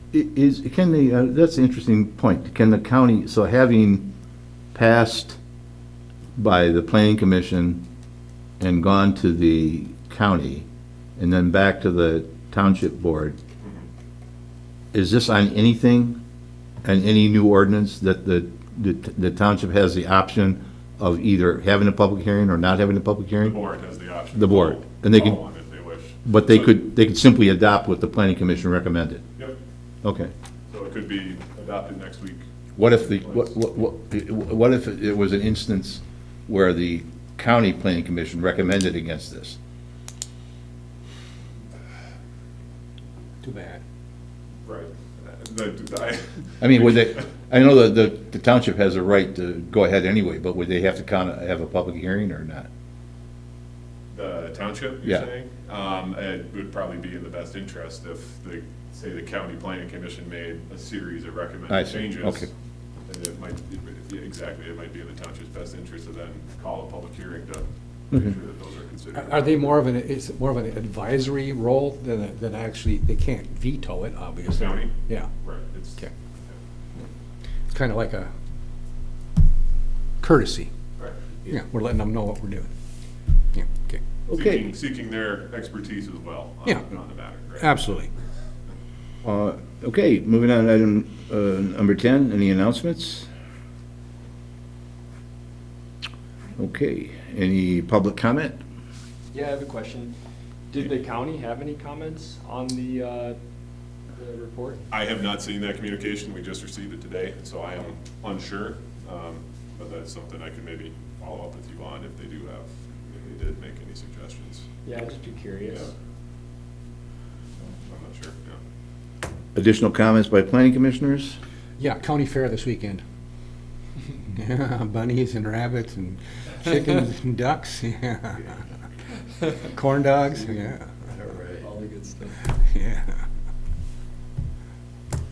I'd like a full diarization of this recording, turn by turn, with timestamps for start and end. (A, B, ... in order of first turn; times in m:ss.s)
0:00.1-0:04.1 A
0:04.7-0:05.4 A
0:06.4-0:07.8 A
0:08.6-0:10.7 A
0:11.2-0:13.4 A
0:14.9-0:16.2 A
0:16.8-0:23.6 A
0:23.4-0:26.7 B
0:24.3-0:25.4 A
0:26.2-0:29.2 A
0:30.0-0:30.3 A
0:30.7-0:32.4 B
0:32.8-0:39.6 A
0:33.1-0:33.5 B
0:43.4-0:43.8 C
0:44.6-0:47.2 B
0:46.6-0:52.7 A
0:54.1-1:02.5 B
1:01.7-1:02.5 A
1:03.1-1:09.8 B
1:09.1-1:15.3 C
1:14.4-1:16.5 B
1:17.7-1:18.3 C
1:20.2-1:20.7 C
1:21.5-1:22.7 C
1:23.5-1:24.0 C
1:24.3-1:24.7 A
1:24.3-1:28.0 B
1:27.6-1:28.1 C
1:29.2-1:33.3 A
1:36.6-1:38.6 A
1:39.3-1:40.1 D
1:40.7-1:43.4 D
1:44.1-1:44.8 D
1:44.9-1:54.7 B
1:54.8-1:55.8 D
1:55.7-1:55.9 B
1:57.9-1:58.6 B
1:59.6-2:01.4 A
2:01.8-2:03.0 C
2:04.3-2:08.6 C
2:09.6-2:11.0 C
2:11.3-2:12.4 D
2:12.6-2:13.2 C